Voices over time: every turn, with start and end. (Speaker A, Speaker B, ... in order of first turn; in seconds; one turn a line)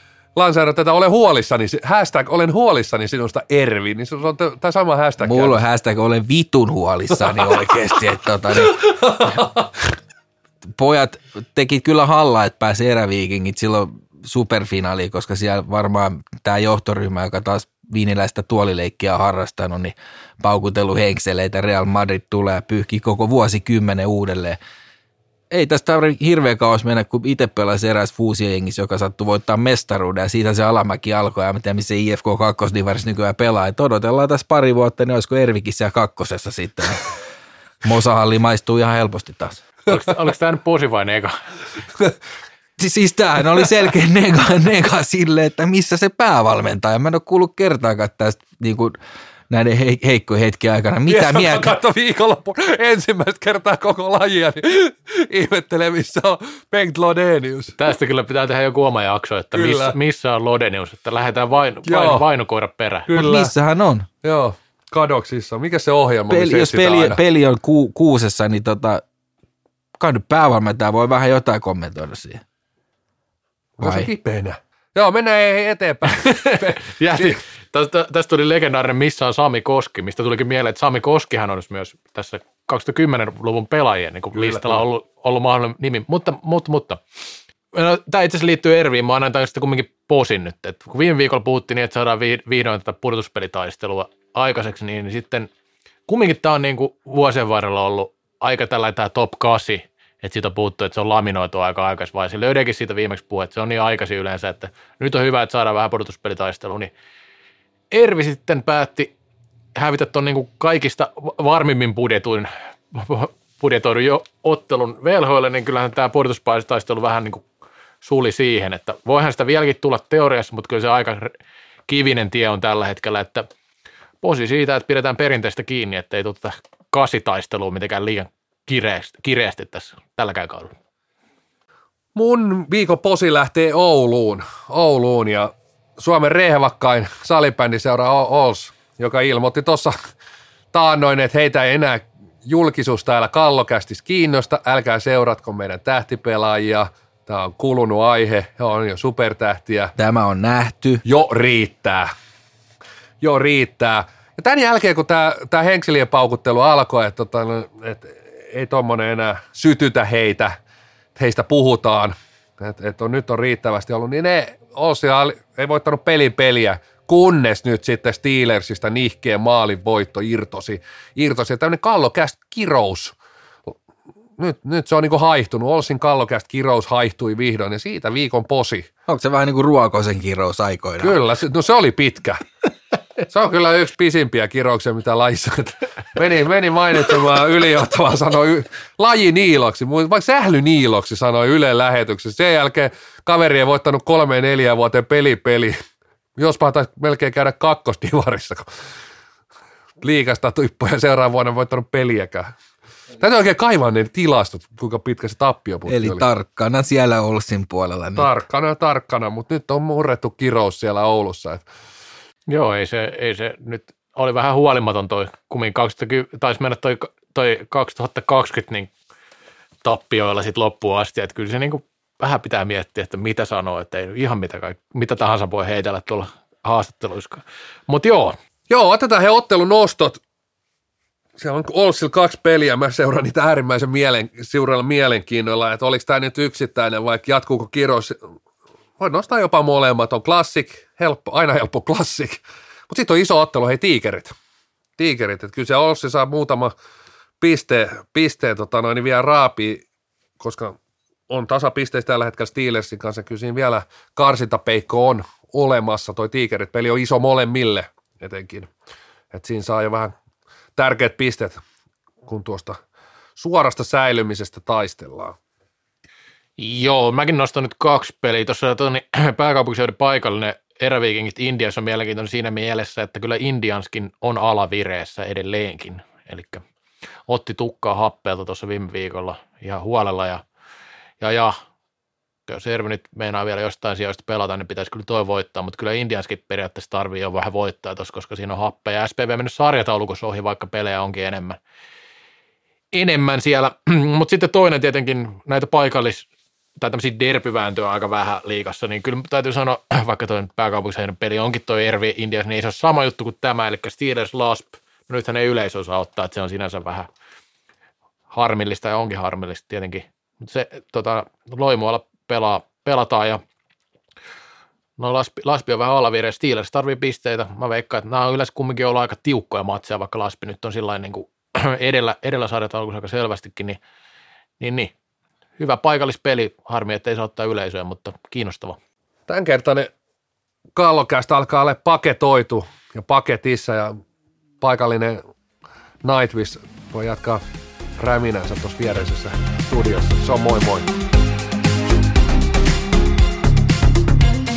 Speaker A: 0.3-5.6
Speaker B: 5.2-9.4
Speaker A: 7.1-7.6
Speaker A: 8.6-9.7
Speaker B: 10.7-24.6
Speaker B: 25.5-37.1
Speaker B: 37.8-39.6
Speaker C: 39.9-41.3
Speaker B: 42.8-49.0
Speaker B: 49.5-51.8
Speaker A: 51.1-57.8
Speaker C: 57.8-63.1
Speaker A: 59.5-60.0
Speaker A: 61.8-62.2
Speaker A: 63.1-63.5
Speaker B: 63.1-64.1
Speaker A: 64.2-67.2
Speaker B: 66.3-69.0
Speaker B: 70.0-72.4
Speaker A: 73.8-77.4
Speaker B: 73.8-74.1
Speaker C: 76.2-87.0
Speaker A: 84.3-84.8
Speaker C: 87.7-95.5
Speaker C: 96.1-106.9
Speaker C: 107.9-109.1
Speaker C: 109.7-117.4
Speaker C: 118.0-121.3
Speaker C: 121.9-123.5
Speaker C: 124.2-130.7
Speaker A: 132.1-140.0
Speaker A: 140.7-149.9
Speaker B: 149.9-151.0
Speaker A: 151.0-152.1
Speaker A: 153.2-160.6
Speaker A: 161.2-173.1
Speaker A: 174.4-178.9
Speaker B: 179.1-181.2
Speaker A: 181.0-182.4
Speaker A: 183.3-195.8
Speaker A: 196.4-198.7
Speaker A: 200.0-202.5
Speaker A: 203.2-206.2
Speaker B: 205.9-208.3
Speaker A: 208.2-211.6
Speaker C: 212.5-218.9
Speaker C: 219.8-228.3
Speaker A: 228.7-230.2
Speaker A: 231.4-238.2
Speaker A: 239.0-244.3
Speaker A: 245.0-246.7
Speaker A: 247.4-249.8
Speaker A: 250.4-250.8
Speaker A: 251.3-258.7
Speaker A: 259.3-260.1
Speaker A: 260.8-261.6
Speaker A: 262.2-262.8
Speaker A: 263.4-265.4
Speaker C: 266.6-276.6
Speaker C: 277.3-280.4
Speaker C: 281.2-281.6
Speaker C: 282.5-291.6
Speaker C: 292.9-296.3
Speaker C: 296.8-307.1
Speaker C: 308.3-313.4
Speaker C: 315.0-323.8
Speaker C: 324.6-324.9
Speaker C: 325.6-328.8
Speaker A: 329.3-329.9
Speaker A: 330.7-334.0
Speaker A: 334.6-335.2
Speaker A: 336.0-337.4
Speaker A: 338.0-340.9